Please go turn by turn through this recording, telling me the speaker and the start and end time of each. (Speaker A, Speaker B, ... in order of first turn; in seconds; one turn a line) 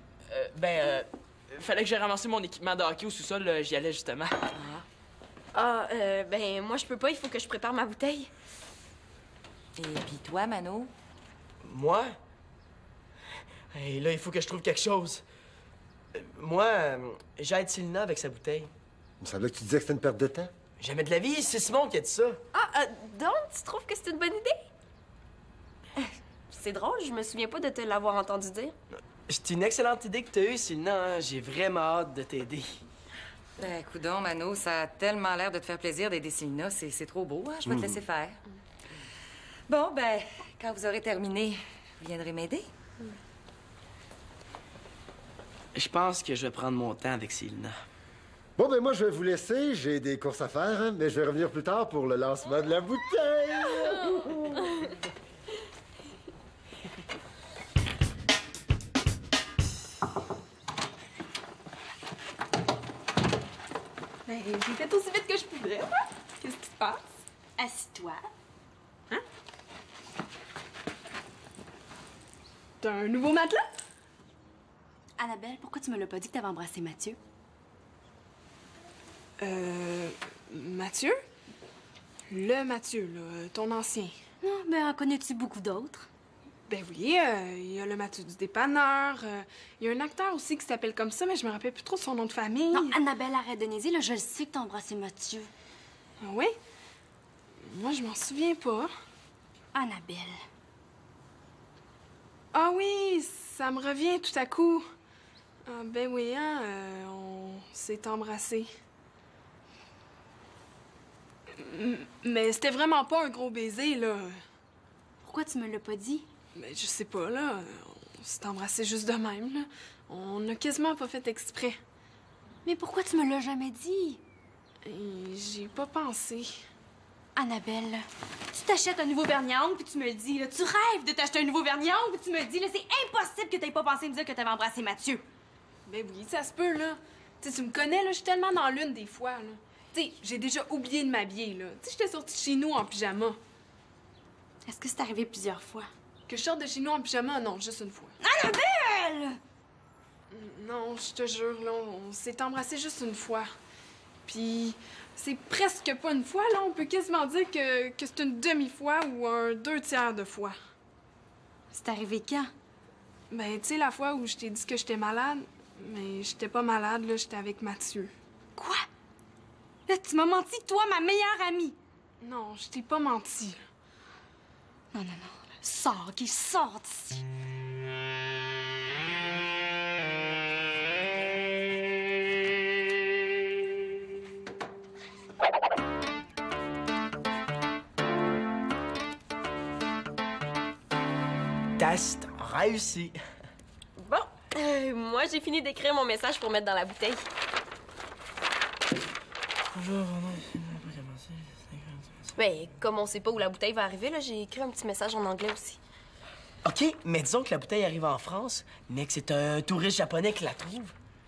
Speaker A: 0.3-4.4
Speaker B: 4.5-4.8
Speaker C: 5.5-8.3
Speaker B: 9.8-10.9
Speaker D: 11.6-12.2
Speaker D: 13.7-15.2
Speaker D: 16.1-18.7
Speaker E: 19.2-20.5
Speaker D: 20.8-22.4
Speaker C: 22.5-24.6
Speaker C: 26.0-28.7
Speaker D: 29.3-32.7
Speaker B: 33.6-38.4
Speaker B: 39.7-42.7
Speaker D: 45.7-47.8
Speaker E: 48.6-54.5
Speaker F: 64.2-67.1
Speaker G: 67.6-68.3
Speaker F: 72.8-73.7
Speaker G: 75.2-77.2
Speaker F: 79.4-81.2
Speaker F: 82.3-84.1
Speaker G: 84.4-86.1
Speaker F: 86.7-93.0
Speaker G: 92.7-95.5
Speaker F: 96.2-96.5
Speaker F: 97.6-98.9
Speaker G: 99.7-100.4
Speaker F: 102.5-104.8
Speaker F: 105.7-108.7
Speaker F: 111.5-114.4
Speaker G: 115.2-116.3
Speaker F: 116.5-121.8
Speaker G: 122.6-124.2
Speaker F: 124.8-126.6
Speaker G: 127.3-135.2
Speaker F: 135.9-143.4
Speaker G: 144.7-145.9
Speaker F: 146.3-148.1
Speaker G: 148.2-149.4
Speaker F: 150.3-153.5
Speaker F: 154.2-160.6
Speaker G: 161.7-162.5
Speaker F: 163.3-168.1
Speaker G: 168.6-168.8
Speaker G: 169.9-171.8
Speaker F: 172.2-173.6
Speaker G: 174.9-177.2
Speaker D: 191.8-193.2
Speaker C: 194.0-197.2
Speaker D: 199.7-202.3
Speaker C: 202.3-205.8
Speaker D: 206.6-210.9